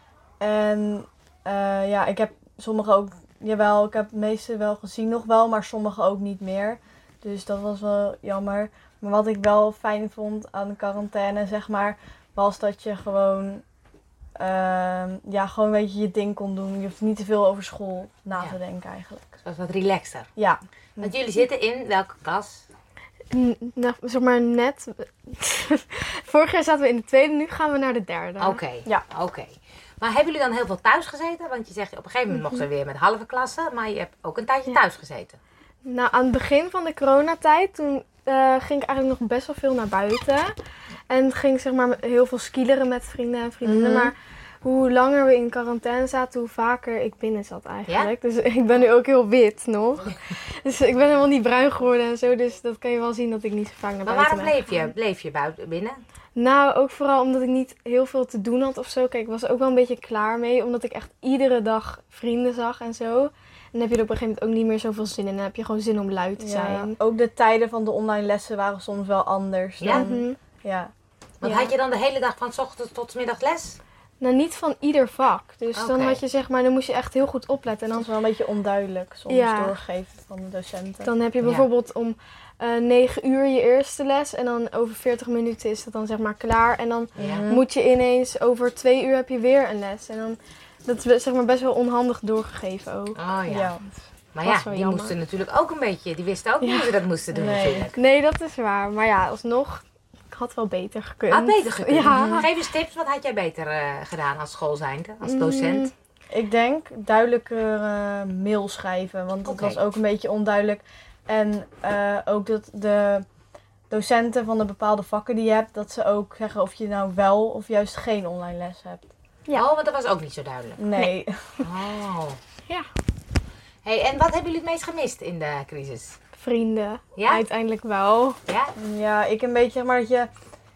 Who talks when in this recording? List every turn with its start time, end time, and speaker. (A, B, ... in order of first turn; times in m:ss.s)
0:00.4-0:13.6 A
0:14.4-0:19.3 A
0:19.4-0:20.3 B
0:20.4-0:21.1 A
0:21.0-0:22.7 B
0:23.3-0:29.0 C
0:28.4-0:35.4 B
0:35.8-0:40.5 C
0:41.1-0:54.6 C
0:43.6-0:44.1 A
0:54.0-0:56.0 B
0:56.4-1:07.0 C
1:06.4-1:10.9 A
1:09.8-1:10.1 B
1:09.9-1:10.4 C
1:11.4-1:13.8 B
1:11.4-1:11.7 C
1:14.2-1:18.1 C
1:15.8-1:16.2 B
1:18.0-1:21.1 A
1:19.3-1:19.8 C
1:21.0-1:33.2 C
1:21.4-1:21.7 B
1:27.2-1:27.5 B
1:27.2-1:27.6 A
1:33.2-1:33.7 B
1:33.5-1:33.8 A
1:34.3-1:38.0 B
1:34.4-1:35.1 C
1:36.6-1:36.9 C
1:37.3-1:37.9 A
1:38.0-1:42.5 C
1:41.3-1:45.9 B
1:42.1-1:42.5 A
1:45.2-1:45.9 C
1:46.3-1:53.3 A
1:49.4-1:49.8 B
1:53.9-1:59.1 A
1:59.5-2:00.8 B
2:00.8-2:01.5 A
2:01.6-2:02.4 B
2:03.8-2:06.2 B
2:06.4-2:08.4 C
2:07.2-2:07.4 B
2:08.5-2:08.7 B
2:08.8-2:10.3 A